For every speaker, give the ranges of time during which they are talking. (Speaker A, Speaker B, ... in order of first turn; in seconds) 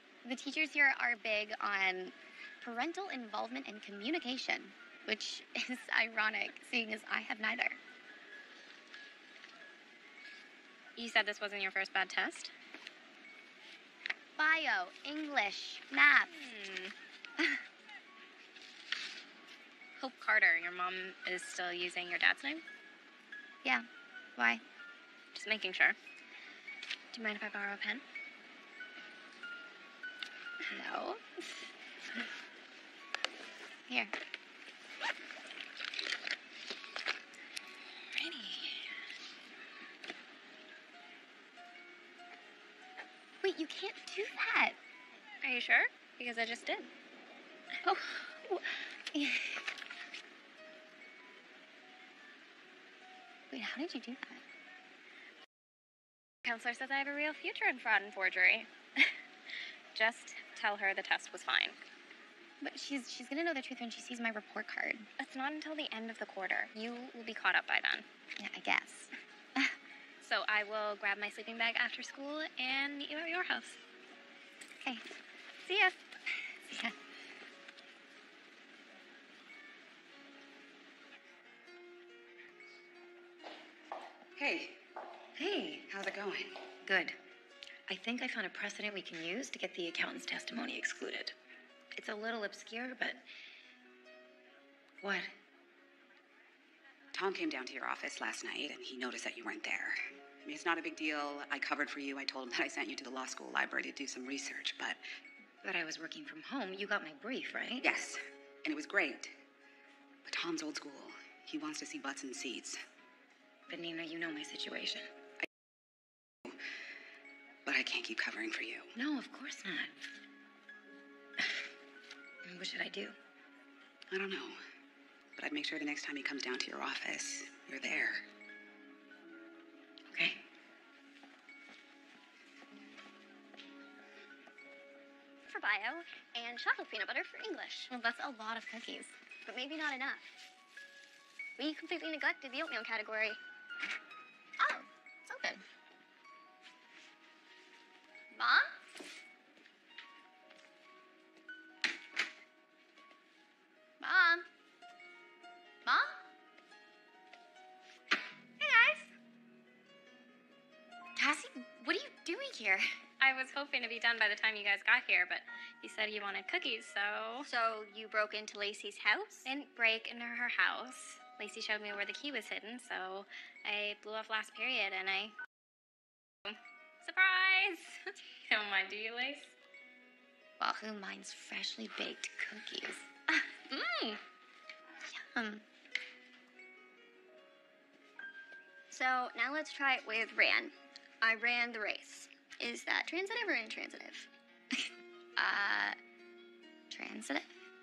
Speaker A: 0.2-7.8, 14.4-16.4, 23.6-24.6, 30.7-31.3, 33.9-34.1, 43.4-44.8, 47.8-49.7, 53.5-54.4, 62.6-65.1, 68.4-69.8, 76.7-76.9, 137.9-139.1, 144.6-145.6, 148.3-148.8, 154.0-154.5, 155.8-156.2, 158.6-159.1, 161.2-162.9, 180.6-184.2, 185.1-185.6, 195.4-196.0, 196.9-197.5
Speaker B: 10.9-12.5, 16.3-16.9, 20.0-22.6, 25.3-26.0, 27.1-28.0, 45.4-46.9, 56.4-59.1, 59.9-61.8, 65.2-68.0, 70.2-73.8, 75.7-75.9, 163.2-167.5, 169.4-175.3, 176.4-179.5
Speaker C: 38.1-38.9, 85.3-85.9, 86.8-87.2, 87.9-91.3, 91.9-93.3, 95.0-95.3, 105.6-107.9, 113.7-115.1, 118.9-120.0, 122.4-123.2, 130.1-130.4
Speaker D: 84.3-84.8, 85.9-86.6, 97.1-105.0, 107.8-109.3, 110.2-112.8, 117.7-118.9, 124.1-124.6, 125.3-128.2
Speaker E: 135.5-137.9, 139.4-140.3, 141.6-143.4, 167.4-169.5, 188.9-194.3